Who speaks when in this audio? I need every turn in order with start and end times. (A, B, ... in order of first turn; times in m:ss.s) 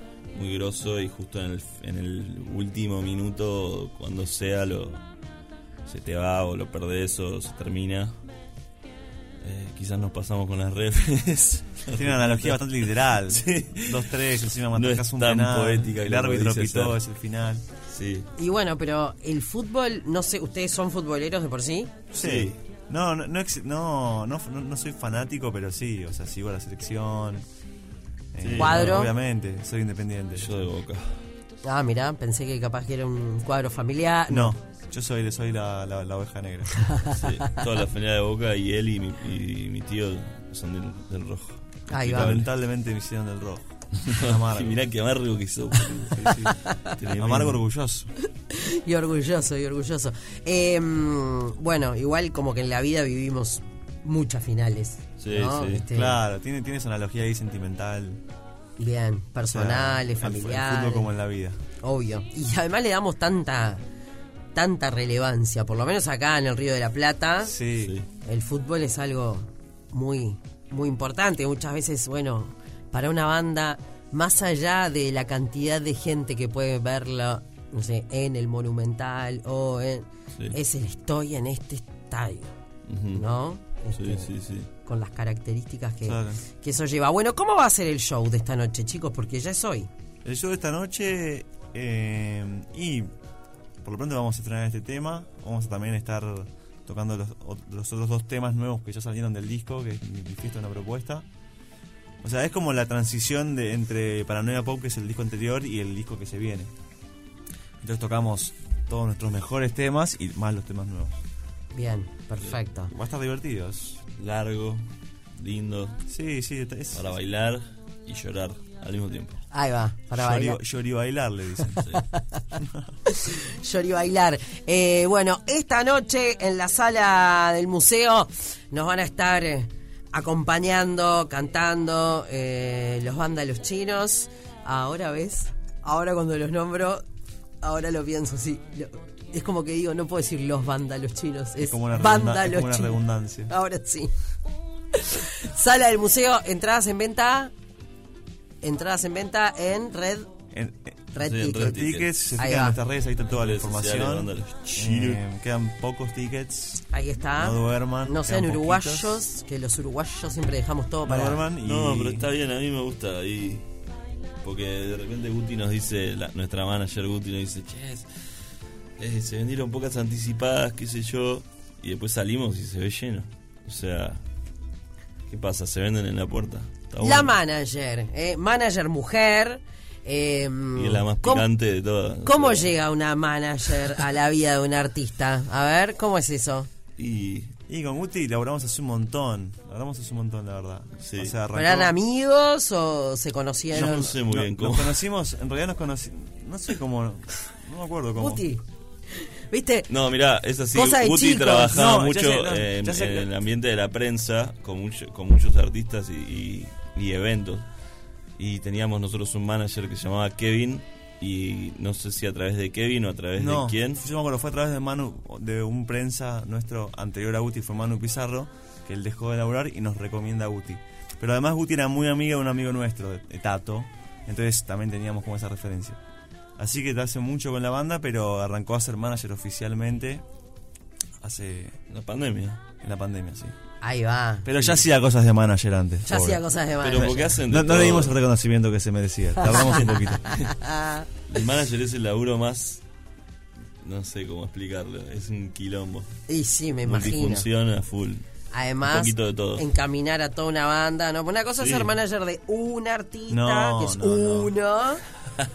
0:00.3-0:05.0 A
0:05.8-0:08.2 A
0:09.4-0:12.6 A
0:11.9-0:17.6 B
0:13.3-0:17.0 A
0:17.9-0:18.3 A
0:18.4-0:21.9 C
0:22.1-0:22.6 A
0:22.1-0:27.4 B
0:28.3-0:30.6 B
0:28.4-0:29.0 A
0:28.6-0:29.1 C
0:30.3-0:31.2 A
0:31.6-0:34.5 C
0:34.3-0:37.0 B
0:36.7-0:37.3 C
0:37.1-0:42.4 A
0:41.9-0:42.4 C
0:42.0-0:44.8 B
0:44.0-0:47.6 A
0:46.1-0:46.5 B
0:46.4-0:47.0 C
0:47.2-0:48.1 B
0:48.5-0:56.2 C
0:55.2-0:55.8 A
0:55.9-0:58.2 B
0:58.8-1:01.1 C
0:59.5-1:01.6 B
1:01.8-1:03.8 C
1:04.5-1:07.5 C
1:07.4-1:08.0 B
1:07.8-1:08.1 A
1:08.2-1:22.5 C
1:22.9-1:23.2 A
1:23.1-1:24.3 C
1:23.9-1:24.7 A
1:24.8-1:29.9 C
1:26.0-1:26.4 B
1:30.2-1:33.1 B
1:33.8-1:41.3 B
1:42.2-1:46.7 B
1:47.8-1:51.2 B
1:51.7-1:52.9 C
1:52.9-1:54.0 B
1:54.2-1:56.0 A
1:56.1-1:57.0 B
1:56.9-1:59.4 A
1:59.5-2:00.6 C
2:00.1-2:01.8 B
2:01.7-2:02.0 A
2:03.0-2:17.0 C
2:17.6-2:24.1 C
2:21.6-2:23.5 B
2:24.9-2:27.5 C
2:28.6-2:30.3 C
2:30.5-2:31.0 B
2:31.1-2:31.8 C
2:31.2-2:32.1 A
2:31.6-2:36.8 B
2:32.4-2:32.8 C
2:33.3-2:35.2 A
2:36.9-2:41.4 C
2:37.4-2:39.2 B
2:41.0-2:42.3 B
2:41.6-2:43.7 A
2:44.4-2:48.3 A
2:49.0-2:54.2 A
2:55.3-2:57.3 A
2:57.0-3:01.5 C
3:00.7-3:02.7 A
3:02.2-3:06.7 C
3:07.0-3:07.6 A
3:07.7-3:12.0 B
3:11.0-3:11.4 A
3:11.5-3:14.1 C
3:13.7-3:18.4 B
3:13.7-3:15.0 A
3:18.2-3:19.9 C
3:19.9-3:27.7 A
3:20.7-3:21.9 C
3:21.7-3:23.3 B
3:28.4-3:34.0 A
3:33.3-3:46.0 B
3:46.6-3:50.2 B
3:51.2-3:51.8 B
3:51.9-3:52.6 A
3:52.8-3:53.6 B
3:53.8-3:54.5 C
3:54.4-4:00.4 B
3:54.6-3:54.8 A
3:56.0-3:57.4 C
3:56.8-3:58.2 A
3:59.5-4:01.1 C
4:01.3-4:02.8 A
4:03.8-4:06.2 A
4:06.3-4:07.5 C
4:06.8-4:08.2 A
4:08.5-4:15.0 C
4:08.8-4:09.6 A
4:11.6-4:11.9 A
4:13.3-4:14.5 B